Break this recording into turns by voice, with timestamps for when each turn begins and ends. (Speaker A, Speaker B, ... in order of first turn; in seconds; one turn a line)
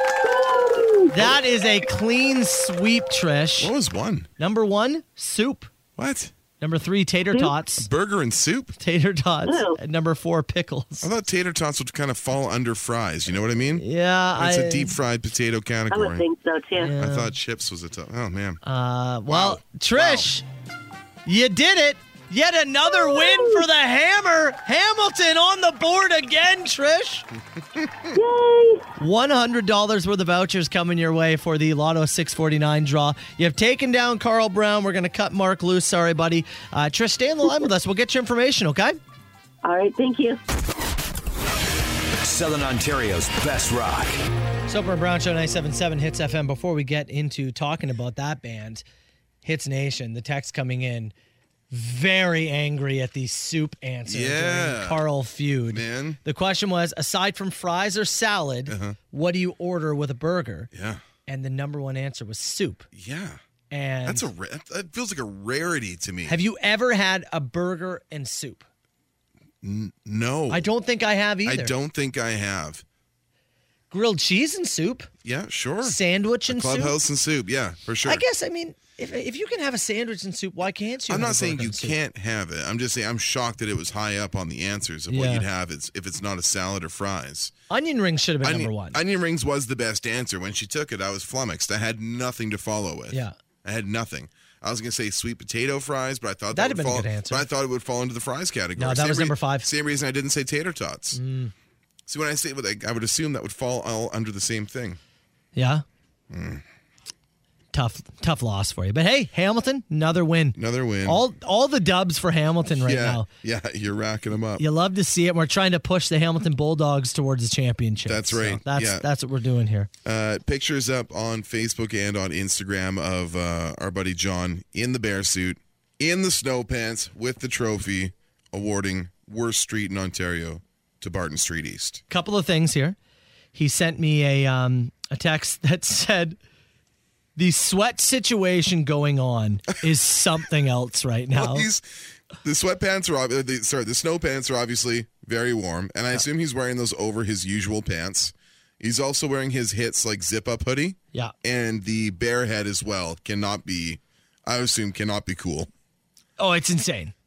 Speaker A: 0.2-1.3
Speaker B: 1.1-3.7
Speaker C: 3.6-4.3
Speaker B: 4.4-5.7
Speaker C: 6.0-6.3
Speaker B: 6.6-7.9
Speaker A: 7.3-7.6
Speaker C: 7.8-8.7
Speaker B: 8.8-11.1
Speaker A: 9.4-9.8
Speaker C: 11.0-13.8
Speaker B: 13.8-14.9
Speaker C: 14.4-16.2
Speaker A: 15.9-17.0
Speaker B: 16.8-17.3
Speaker C: 16.9-18.6
Speaker B: 18.6-20.4
Speaker C: 19.3-20.3
Speaker B: 21.3-27.3
Speaker A: 22.9-23.7
Speaker C: 27.8-28.1
Speaker A: 28.1-28.9
Speaker B: 29.0-39.0
Speaker A: 39.6-40.4
Speaker D: 42.2-44.2
Speaker B: 44.7-48.8
Speaker B: 49.4-51.1
Speaker B: 51.7-60.7
Speaker C: 54.1-55.0
Speaker C: 55.7-56.2
Speaker C: 58.7-59.0
Speaker C: 60.7-61.0
Speaker B: 61.3-62.9
Speaker C: 62.9-63.4
Speaker B: 63.7-64.3
Speaker C: 64.0-66.4
Speaker B: 66.3-68.7
Speaker C: 69.6-70.7
Speaker B: 70.5-71.8
Speaker C: 71.5-72.8
Speaker B: 73.9-75.1
Speaker C: 75.2-78.2
Speaker B: 75.8-77.0
Speaker B: 78.0-82.0
Speaker C: 81.1-87.5
Speaker B: 85.1-85.5
Speaker B: 87.7-89.0
Speaker C: 88.4-101.2
Speaker B: 96.5-97.5
Speaker B: 98.8-99.7
Speaker B: 101.1-101.5
Speaker C: 102.1-105.0
Speaker B: 105.5-105.8
Speaker C: 106.3-106.6
Speaker B: 107.7-113.3
Speaker C: 110.6-111.2
Speaker C: 112.8-114.6
Speaker B: 114.6-119.9
Speaker C: 118.0-119.0
Speaker C: 120.0-132.0
Speaker B: 132.1-133.0
Speaker B: 133.6-136.4
Speaker B: 137.4-141.7
Speaker C: 141.3-155.7
Speaker B: 156.4-157.1